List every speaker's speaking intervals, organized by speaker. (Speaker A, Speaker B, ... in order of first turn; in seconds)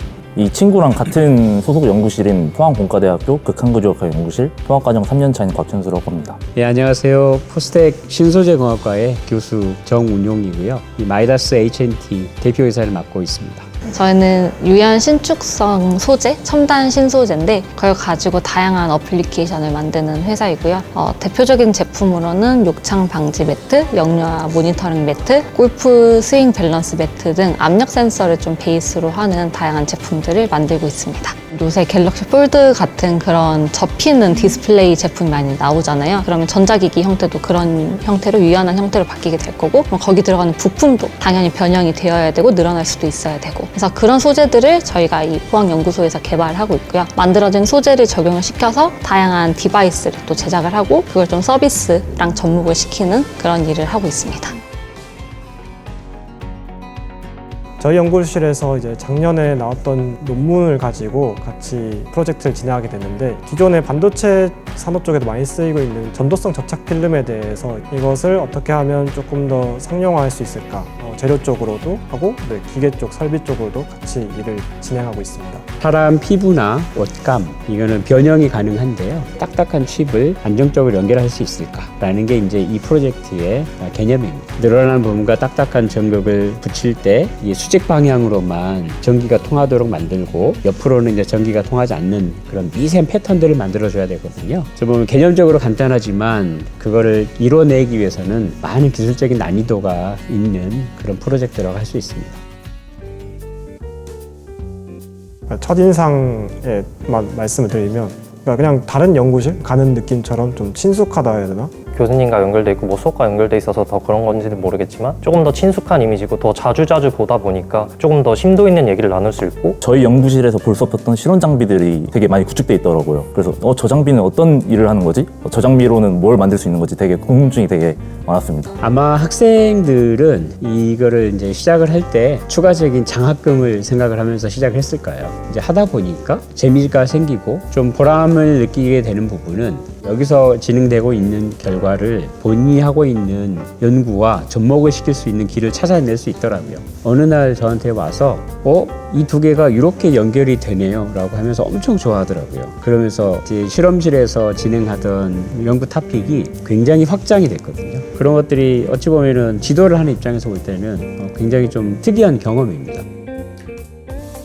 Speaker A: 0.4-6.4, 119.8-128.8
Speaker B: 6.5-13.7, 75.8-102.4, 128.8-163.1
Speaker C: 13.9-54.5
Speaker D: 57.8-75.7, 105.5-111.7
Speaker E: 111.9-119.8